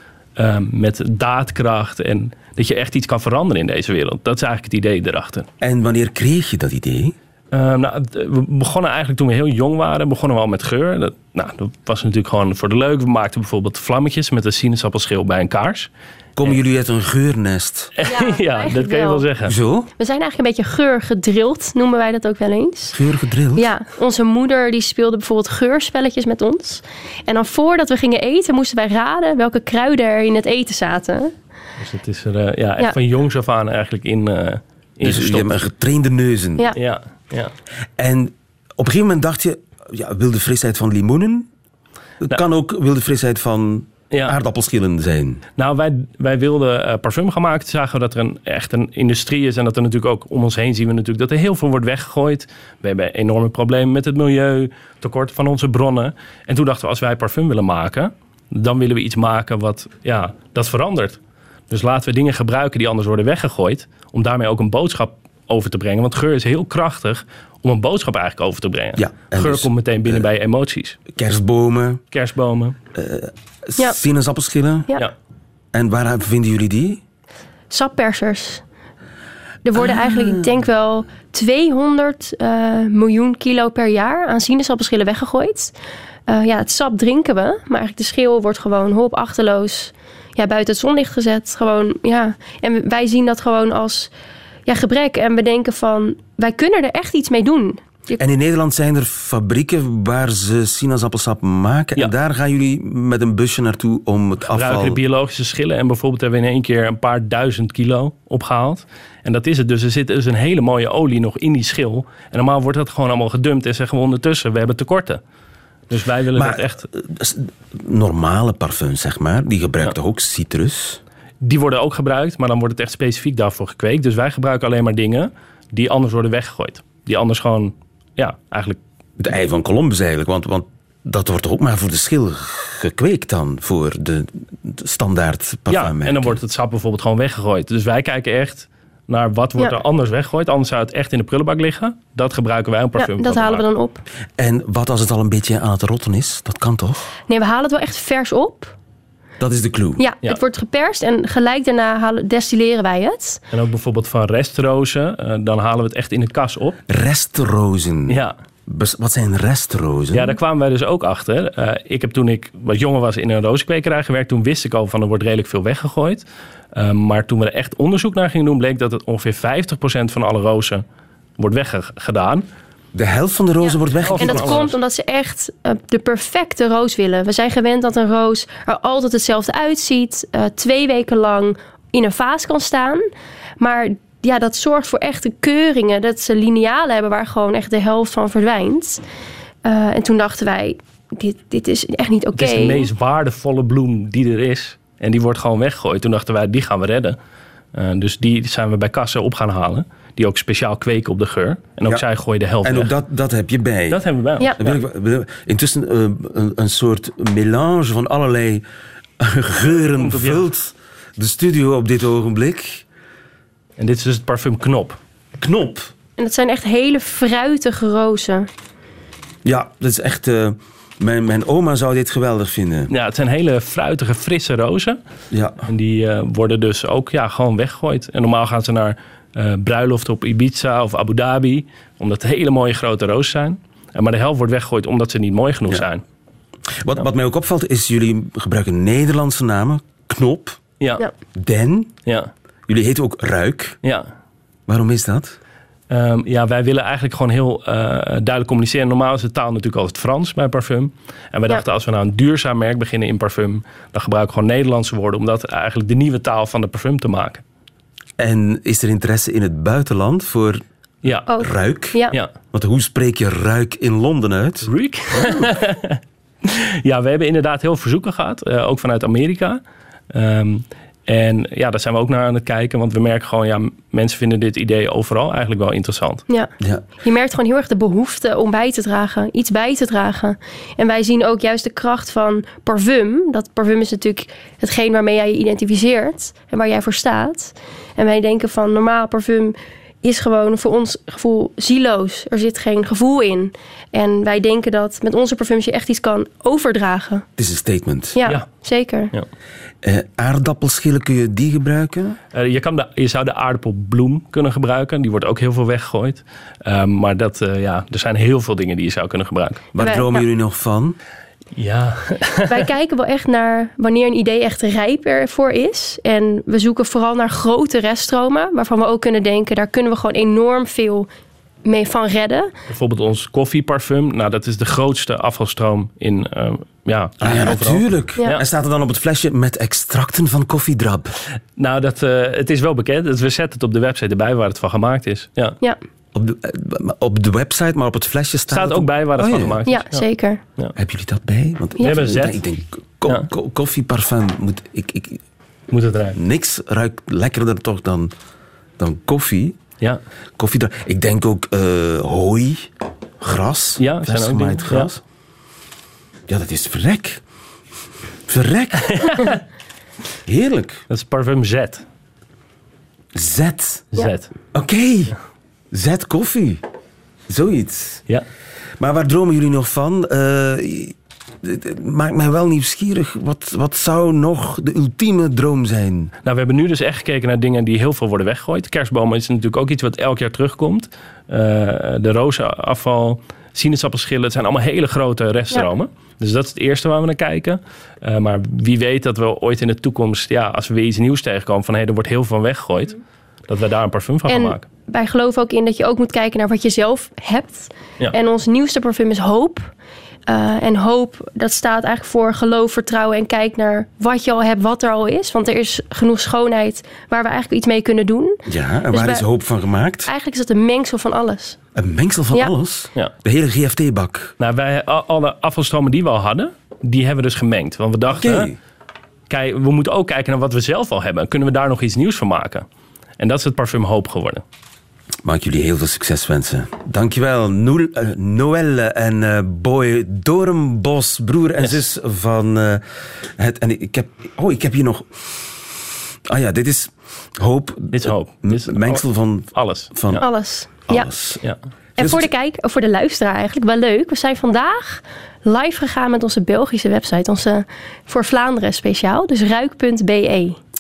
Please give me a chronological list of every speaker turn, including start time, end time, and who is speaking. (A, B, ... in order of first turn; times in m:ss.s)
0:00.4-0:05.5 A
0:05.6-0:07.2 B
0:07.5-0:15.9 A
0:16.4-0:17.9 B
0:18.0-0:19.5 A
0:18.1-0:19.2 C
0:19.4-0:19.9 B
0:20.0-0:23.0 C
0:22.9-0:23.7 B
0:23.6-0:31.3 C
0:31.8-0:35.6 A
0:35.0-0:36.7 B
0:36.8-0:37.5 A
0:38.0-0:41.5 B
0:42.2-0:45.4 B
0:45.6-1:01.2 A
1:01.7-1:11.0 A
1:09.0-1:10.2 B
1:11.1-1:12.0 B
1:12.1-1:12.8 A
1:13.0-1:14.9 B
1:15.7-1:17.0 B
1:17.7-1:18.6 C
1:19.6-1:25.7 C
1:19.8-1:20.4 B
1:26.3-1:34.1 C
1:34.7-1:38.2 C
1:38.2-1:45.0 B
1:44.5-1:55.2 A
1:55.9-1:56.8 A
1:56.4-2:01.0 B
2:01.4-2:08.8 A
2:09.2-2:16.4 B
2:15.7-2:23.6 A
2:23.0-2:24.0 C
2:24.4-2:27.1 B
2:27.3-2:28.8 C
2:29.4-2:30.0 B
2:30.0-2:33.4 C
2:33.5-2:36.8 A
2:36.9-2:40.4 B
2:38.1-2:38.3 A
2:40.1-2:50.8 A
2:51.4-2:52.4 A
2:53.0-2:54.7 B
2:53.6-3:03.1 C
2:54.0-2:54.7 A
3:03.6-3:09.0 C
3:09.6-3:12.9 C
3:12.4-3:17.2 A
3:17.7-3:22.9 A
3:22.6-3:24.0 B
3:23.9-3:24.8 A
3:24.6-3:28.6 B
3:29.2-3:32.8 B
3:30.0-3:30.4 A
3:33.8-3:35.0 A
3:35.4-3:35.9 B
3:36.2-3:38.5 C
3:39.4-3:42.9 B
3:42.9-3:45.0 A
3:45.3-3:45.6 B
3:45.7-3:56.0 A
3:56.8-4:00.6 B
4:01.4-4:01.9 B
4:02.1-4:02.3 A
4:02.7-4:03.8 B
4:03.8-4:04.1 A
4:04.7-4:05.4 B
4:05.9-4:17.4 A
4:18.2-4:20.6 B
4:21.3-4:22.2 C
4:21.4-4:22.0 B
4:22.5-4:25.4 B
4:24.7-4:29.6 A
4:30.1-4:36.2 A
4:36.3-4:57.3 C
4:57.4-4:58.2 B
4:58.2-4:59.1 C
4:59.8-5:02.2 B
5:02.3-5:09.6 A
5:09.7-5:11.0 B
5:09.8-5:10.2 C
5:11.6-5:12.7 A
5:12.5-5:21.1 C
5:21.6-5:22.5 C
5:22.7-5:28.4 A
5:27.2-5:31.2 B
5:31.6-5:35.6 A
5:36.1-5:39.6 B
5:38.5-5:40.1 A
5:39.7-5:40.4 C
5:40.8-5:45.2 B
5:41.8-5:42.4 A
5:45.7-5:46.2 A
5:46.2-5:48.1 B
5:48.8-5:49.6 B
5:50.4-5:52.7 B
5:53.2-5:55.0 B
5:53.8-5:54.9 A
5:56.3-5:57.2 B
5:58.3-5:59.0 B
5:58.9-5:59.3 A
6:00.3-6:00.8 B
6:00.9-6:01.8 A
6:03.2-6:03.9 B
6:03.9-6:04.3 A
6:04.5-6:05.2 B
6:05.7-6:06.6 B
6:07.3-6:08.0 B
6:08.8-6:16.1 B
6:16.2-6:33.0 A
6:33.5-6:34.6 A
6:34.3-6:39.7 C
6:40.3-6:48.4 C
6:48.5-6:50.1 B
6:48.9-6:49.3 C
6:50.0-6:51.6 C
6:51.8-6:54.3 B
6:54.4-6:58.5 A
6:58.1-6:58.6 B
6:59.3-7:02.7 A
7:03.2-7:04.4 A
7:05.2-7:12.8 B
7:13.4-7:15.1 B
7:16.3-7:21.4 B
7:17.9-7:20.2 A
7:20.2-7:21.1 C
7:22.0-7:22.3 B
7:22.0-7:30.6 C